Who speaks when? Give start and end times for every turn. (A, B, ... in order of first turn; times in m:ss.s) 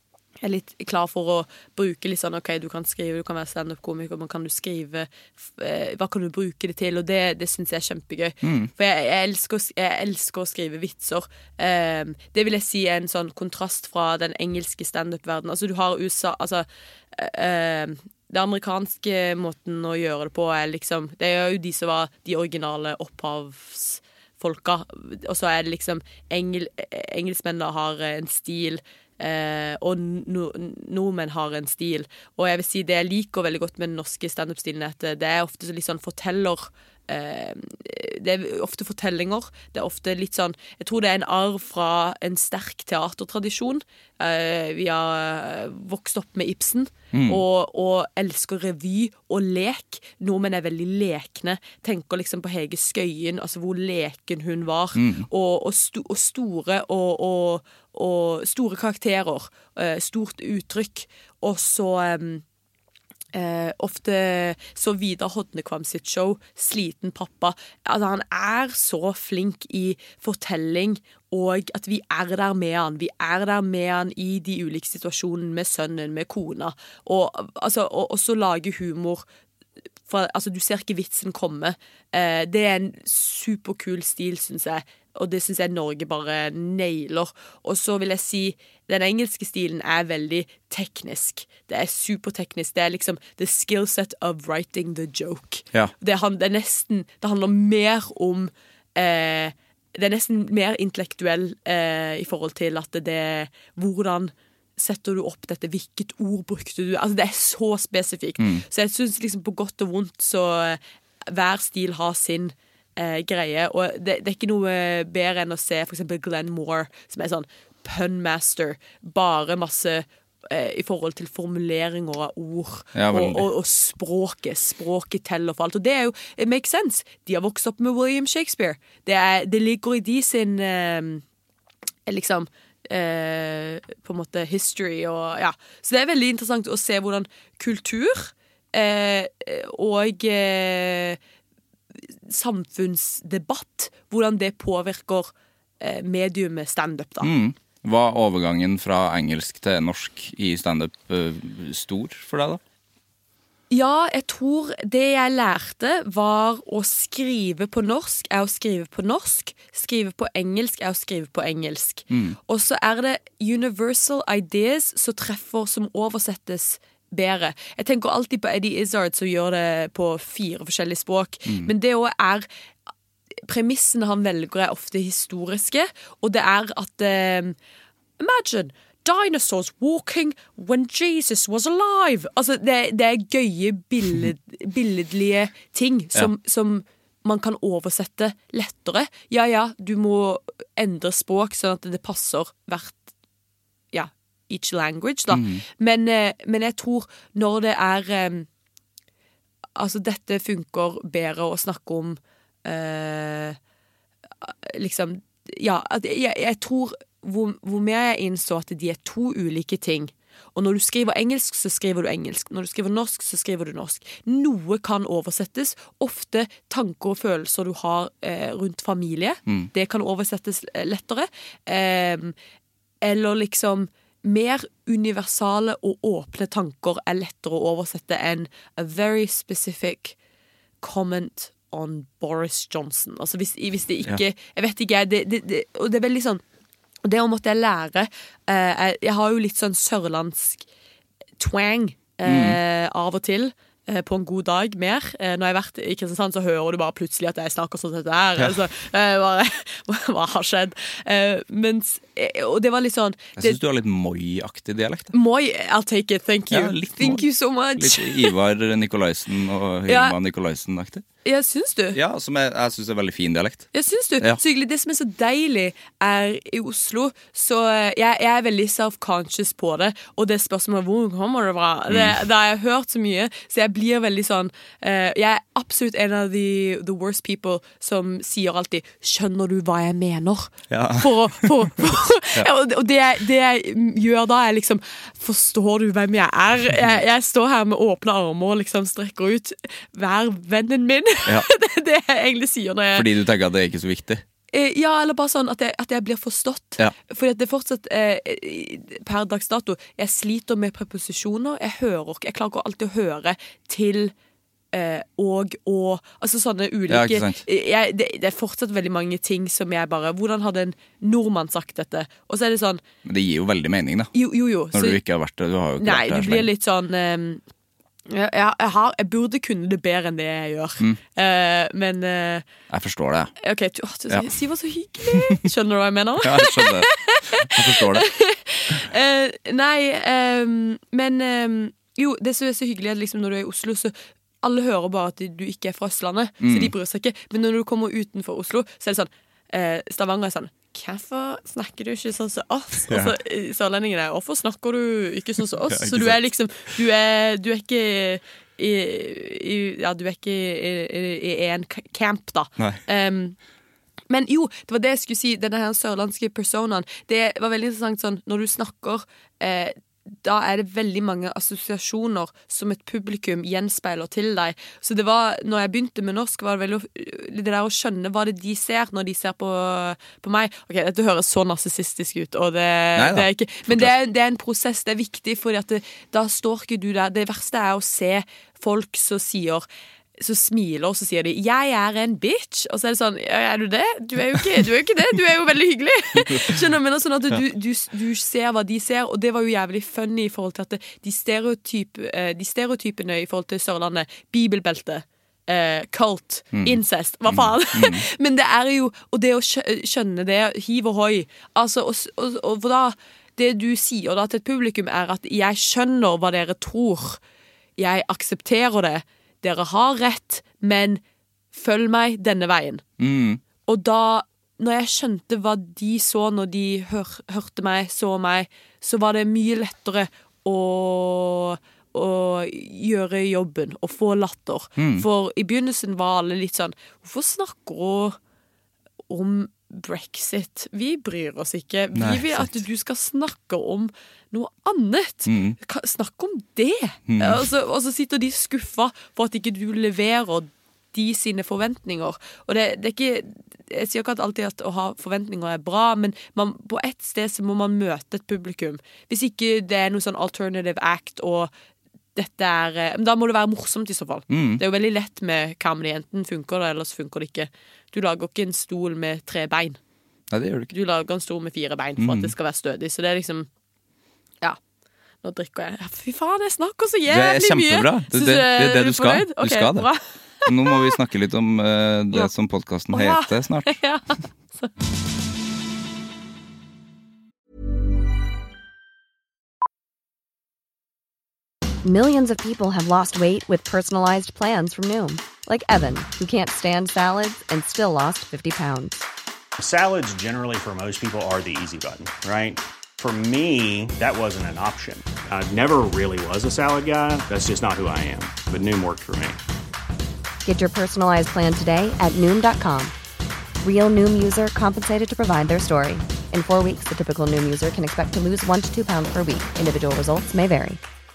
0:00.4-1:02.4 A
0:08.4-0:08.7 B
0:47.1-0:47.4 B
0:55.0-0:55.3 B
1:03.3-1:19.2 A
1:20.1-2:11.2 A
1:48.4-1:48.6 B
2:03.0-2:03.5 B
2:12.1-2:21.2 A
2:22.3-2:27.3 A
2:27.2-2:32.6 B
2:33.7-2:52.5 A
2:42.1-2:42.4 B
2:51.5-2:51.7 B
2:53.5-2:57.6 A
2:58.2-3:13.0 A
3:13.9-3:18.5 A
3:15.3-3:15.6 B
3:19.8-3:23.6 A
3:24.4-3:42.4 A
3:43.0-3:50.2 A
3:50.8-3:56.4 A
3:57.0-4:00.6 A
4:01.4-4:13.6 A
4:02.2-4:02.6 B
4:13.4-4:15.1 B
4:15.1-4:18.3 A
4:16.5-4:21.0 B
4:19.9-4:20.2 A
4:21.2-4:22.0 A
4:21.9-4:24.4 B
4:23.7-4:53.1 A
4:31.9-4:32.2 B
4:40.7-4:41.5 B
4:52.9-4:54.2 B
4:54.5-5:04.1 A
5:04.7-5:12.8 A
5:06.9-5:07.4 B
5:13.0-5:14.1 B
5:14.1-5:15.0 A
5:14.7-5:16.5 B
5:15.8-5:17.4 A
5:18.1-5:22.4 A
5:22.7-5:23.3 B
5:23.4-5:53.4 A
5:26.2-5:28.1 B
5:36.4-5:36.7 B
5:42.9-5:43.2 B
5:45.7-5:46.2 B
5:54.1-6:19.7 A
6:13.0-6:13.9 B
6:20.2-6:47.2 A
6:26.3-6:26.6 B
6:36.5-6:38.0 B
6:47.8-6:51.0 A
6:51.5-6:52.8 A
6:53.0-6:53.4 B
6:53.7-7:08.2 A
7:04.8-7:05.1 B
7:09.1-7:31.5 A
7:12.0-7:12.6 B
7:15.3-7:15.6 B
7:17.1-7:17.5 B
7:32.2-7:39.8 A
7:34.3-7:34.6 B
7:40.3-7:40.7 B
7:40.7-7:43.5 A
7:42.0-7:42.3 B
7:45.2-7:50.9 A
7:47.1-7:49.9 B
7:50.4-7:53.8 B
7:52.9-7:54.7 A
8:01.8-8:09.0 C
8:09.6-8:19.4 D
8:20.4-8:23.0 C
8:23.6-8:30.8 C